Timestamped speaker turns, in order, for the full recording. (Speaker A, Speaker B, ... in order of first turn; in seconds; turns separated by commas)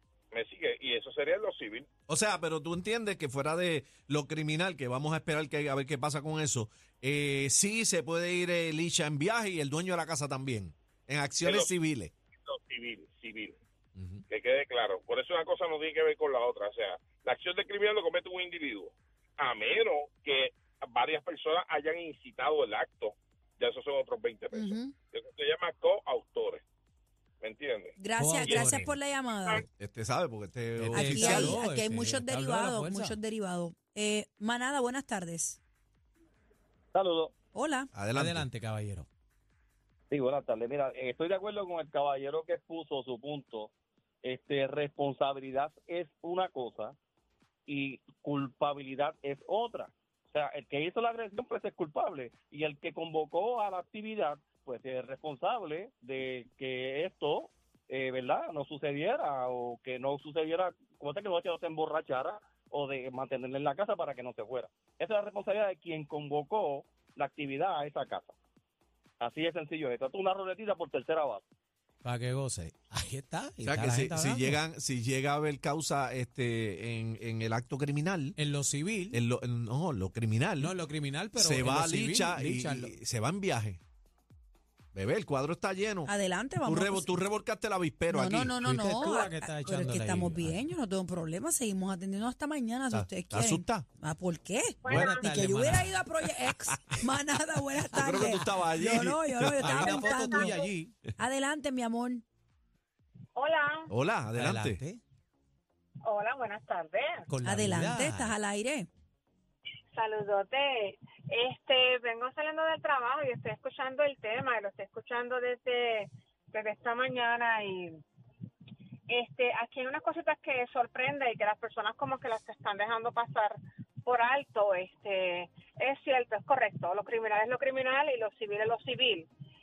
Speaker A: 0.3-1.9, Speaker B: 2.1-12.1, Speaker A: 11.4-11.7, Speaker A: 12.4-13.6, Speaker B: 14.0-14.2, Speaker A: 14.3-26.6, Speaker C: 24.5-25.0, Speaker A: 27.4-29.6, Speaker C: 28.0-29.6, Speaker D: 28.1-28.9, Speaker B: 29.6-31.6, Speaker D: 30.8-33.2, Speaker C: 30.9-35.6, Speaker E: 36.9-37.3, Speaker C: 37.5-37.9, Speaker B: 37.9-38.5, Speaker D: 38.0-39.1, Speaker E: 40.1-47.0, Speaker E: 47.7-68.3, Speaker E: 69.2-71.4, Speaker D: 72.0-74.6, Speaker B: 73.7-78.4, Speaker D: 78.4-79.2, Speaker B: 79.1-80.7, Speaker D: 80.6-83.0, Speaker B: 81.4-83.8, Speaker B: 84.9-86.1, Speaker C: 86.1-87.1, Speaker B: 86.6-88.6, Speaker C: 88.1-100.6, Speaker D: 88.6-90.7, Speaker B: 92.9-93.9, Speaker F: 94.8-95.3, Speaker B: 94.9-95.2, Speaker D: 94.9-96.2, Speaker B: 96.5-96.8, Speaker B: 97.9-99.9, Speaker D: 98.7-101.1, Speaker F: 100.3-100.6, Speaker C: 101.2-102.2, Speaker F: 103.4-103.9, Speaker B: 103.9-104.8, Speaker D: 104.3-105.0, Speaker F: 106.1-107.3, Speaker D: 107.3-108.4, Speaker C: 107.4-108.9, Speaker F: 109.9-117.9, Speaker F: 119.1-129.3